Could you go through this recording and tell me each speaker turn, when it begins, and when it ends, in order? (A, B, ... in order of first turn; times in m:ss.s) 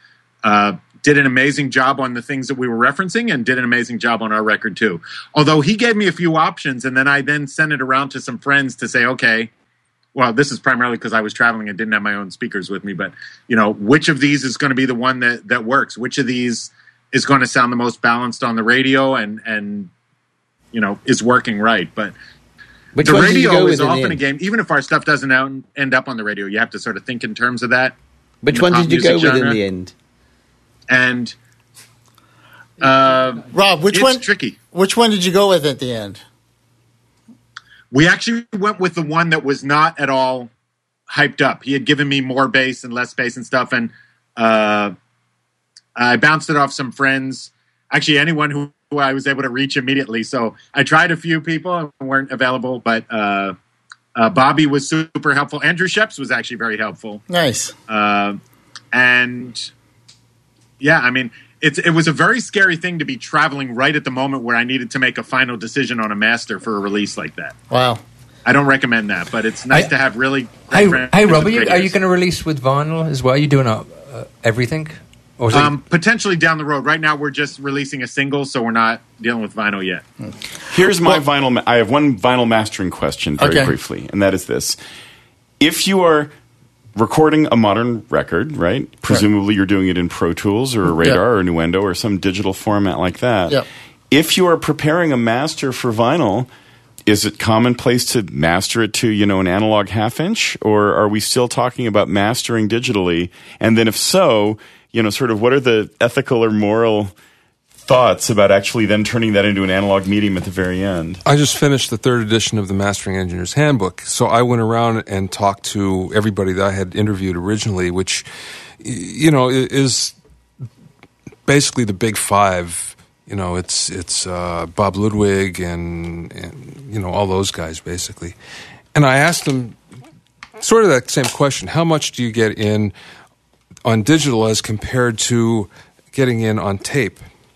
0:00.4-0:09.5 A
0:10.2-0:19.9 A
0:20.7-0:22.1 A
0:23.0-0:24.2 B
0:23.0-0:28.0 A
0:28.4-0:29.9 B
0:28.5-0:29.6 A
0:30.9-0:31.4 A
0:32.8-0:34.6 A
0:33.5-0:36.2 C
0:37.9-0:40.5 A
0:41.1-0:44.9 A
0:46.0-0:53.6 A
0:54.2-0:57.2 A
0:57.3-0:57.8 C
0:57.9-0:58.4 A
0:58.9-0:59.7 A
1:00.8-1:07.6 A
1:07.7-1:08.0 C
1:08.5-1:11.9 A
1:10.7-1:15.7 D
1:15.5-1:20.0 A
1:20.7-1:24.8 E
1:23.4-1:23.7 C
1:25.6-1:26.3 E
1:27.0-1:36.5 E
1:37.1-1:47.1 E
1:47.8-1:51.2 E
1:51.2-1:58.2 F
1:58.8-2:00.2 F
2:01.5-2:08.4 F
2:08.9-2:09.8 F
2:10.6-2:12.9 F
2:13.9-2:17.2 F